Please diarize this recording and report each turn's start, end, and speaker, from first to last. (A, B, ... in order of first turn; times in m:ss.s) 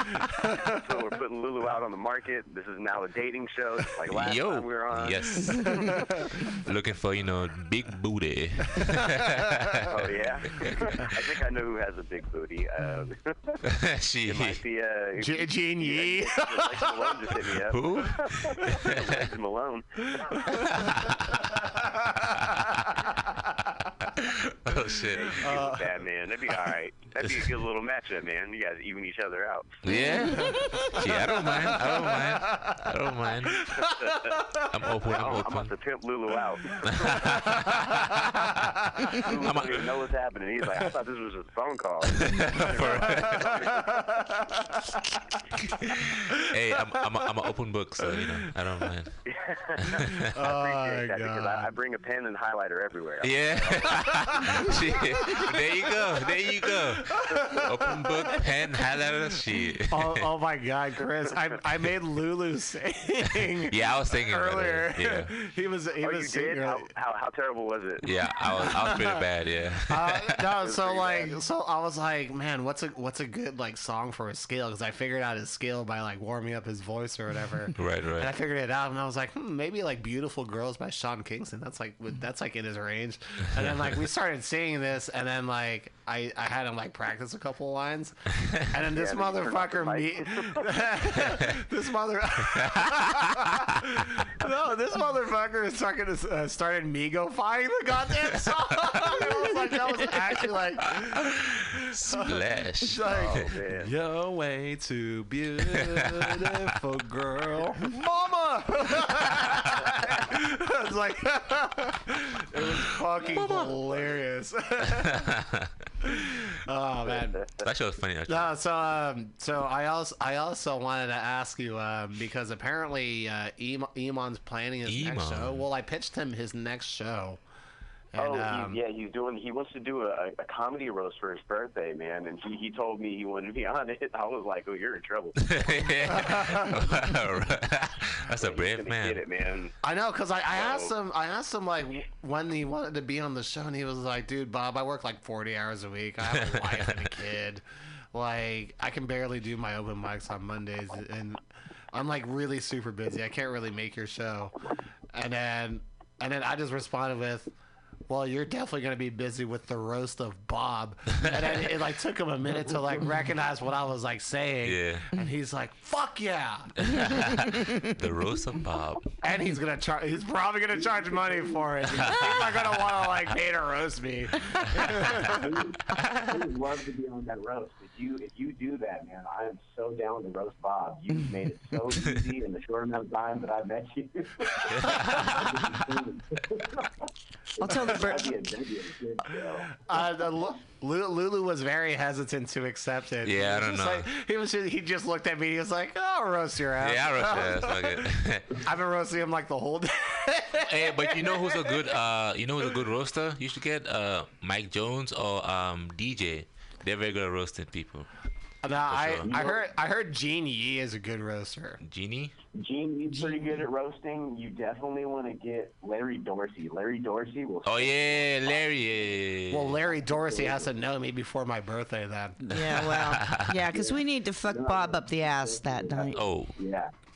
0:00.4-0:06.0 A
0:04.1-0:09.9 B
0:09.9-0:13.6 A
0:10.6-0:11.0 B
0:13.7-0:14.6 B
0:14.3-0:20.4 A
0:15.2-0:17.0 C
0:17.7-0:18.8 B
0:24.2-0:25.4 B
0:24.9-0:29.8 A
0:25.4-0:25.8 C
0:29.8-0:33.9 B
0:30.5-0:32.8 C
0:33.8-0:34.5 A
0:34.7-0:35.7 B
0:35.1-0:37.5 A
0:37.0-0:40.0 B
0:39.1-0:44.2 A
0:42.3-0:43.5 B
0:43.1-0:44.4 C
0:45.9-0:49.2 B
0:48.1-0:48.4 C
0:49.2-0:54.7 A
0:49.8-0:50.2 B
0:50.1-0:51.7 C
0:53.2-1:00.3 B
0:54.1-0:55.6 C
0:56.2-0:59.2 C
0:59.9-1:06.9 C
1:01.2-1:01.6 A
1:03.7-1:05.3 B
1:06.0-1:08.0 A
1:08.0-1:10.5 B
1:08.6-1:09.2 C
1:09.9-1:55.3 C
1:10.6-1:11.4 A
1:17.8-1:18.3 B
1:28.9-1:30.8 A
1:32.9-1:33.3 B
1:41.9-1:43.5 B
1:43.1-1:43.9 A
1:53.2-1:53.7 B
1:56.1-1:57.4 C
1:57.0-1:57.7 A
1:57.6-1:58.5 B
1:58.3-2:07.4 C
2:04.9-2:05.6 B
2:08.1-2:08.8 C
2:08.2-2:16.7 A
2:15.5-2:19.2 B
2:16.2-2:16.8 C
2:18.3-2:19.7 A
2:19.8-2:34.5 C
2:20.5-2:20.9 A
2:26.4-2:26.8 B
2:35.1-2:37.5 C
2:38.1-2:46.7 C
2:44.6-2:45.1 B
2:46.9-2:49.2 B
2:49.2-2:55.5 C
2:50.8-2:52.0 A
2:52.1-2:52.4 B
2:55.2-3:07.1 A
3:07.6-3:08.4 D
3:07.6-3:09.7 A
3:09.7-3:21.9 C
3:13.2-3:14.1 B
3:16.8-3:18.6 B
3:20.7-3:28.1 B
3:28.6-3:31.8 C
3:28.7-3:29.3 B
3:29.3-3:29.6 A
3:31.8-3:32.4 B
3:32.5-3:38.6 A
3:37.6-3:39.8 B
3:39.5-3:42.6 C
3:40.2-3:40.6 A
3:42.5-3:46.2 D
3:42.7-3:43.4 B
3:43.7-3:46.9 A
3:46.2-3:46.6 B